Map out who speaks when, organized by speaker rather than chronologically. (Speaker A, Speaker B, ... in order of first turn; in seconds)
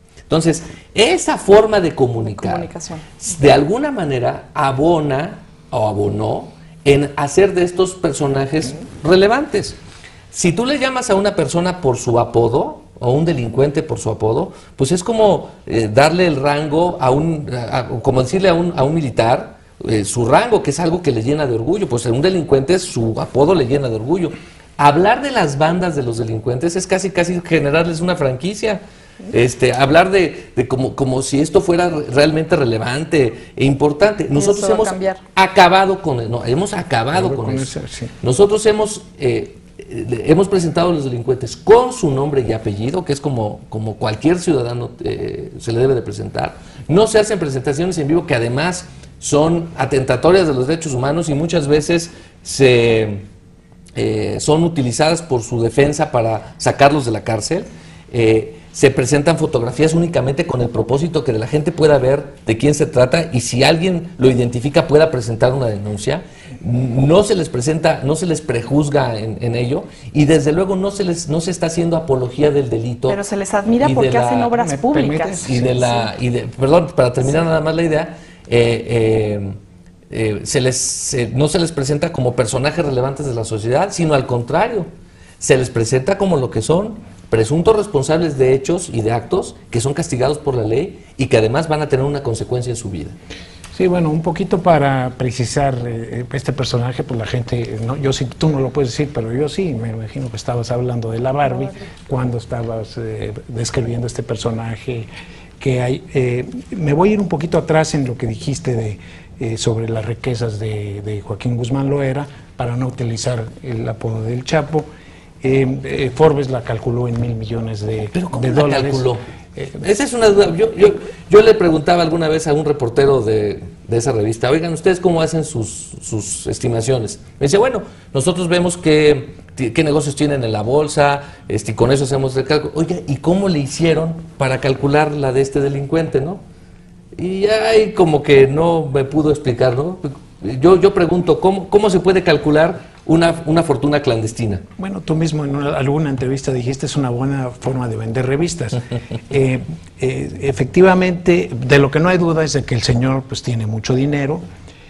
Speaker A: 0.3-2.7, 3.2-9.8, 10.3-53.3, 54.0-73.2, 73.8-74.5, 75.4-79.6, 80.1-93.2, 118.1-136.4, 137.2-144.7
Speaker B: 2.3-3.2, 34.4-35.2, 73.1-75.8
Speaker C: 37.1-38.1, 74.6-75.9, 93.7-105.1, 105.6-114.9, 115.4-119.7, 144.8-154.4